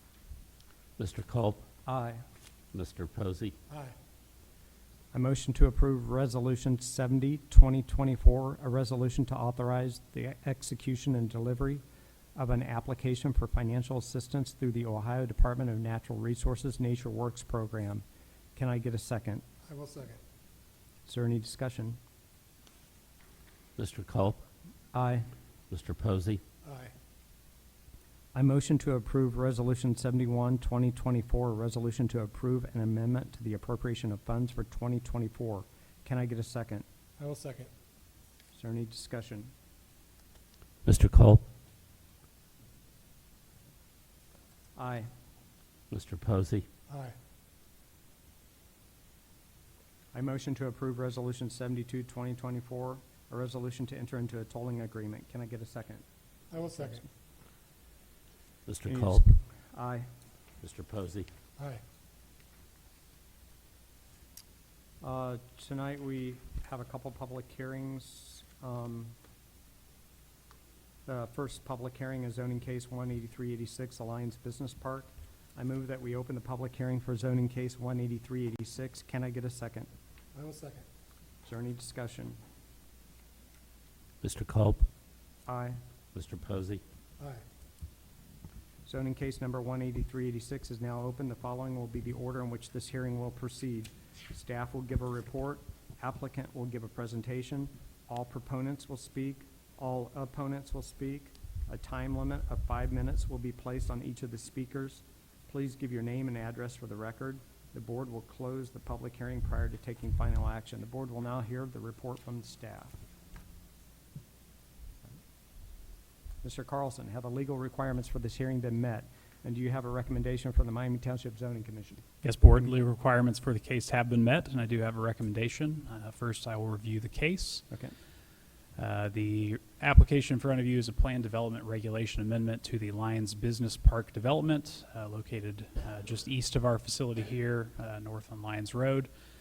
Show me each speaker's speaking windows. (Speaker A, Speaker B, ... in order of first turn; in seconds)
Speaker A: 1.0-1.6, 2.7-3.5, 23.8-24.4, 25.7-26.4, 40.8-41.4, 45.9-46.6, 58.7-59.2, 60.6-61.3, 84.2-84.9, 86.1-86.8
Speaker B: 1.9-2.2, 5.1-11.8, 12.3-18.0, 18.6-19.4, 21.1-22.0, 24.9-25.3, 28.3-36.8, 38.5-39.5, 44.8-45.1, 50.1-56.0, 56.7-57.0, 58.8-60.1, 65.0-69.2, 71.0-79.9, 81.4-82.4, 85.5-85.8, 88.8-113.0, 116.4-122.0
Speaker C: 19.6-20.2, 26.6-26.9, 37.2-37.7, 46.9-47.1, 56.5-57.0, 80.3-80.8
Speaker D: 122.2-127.6, 128.8-139.1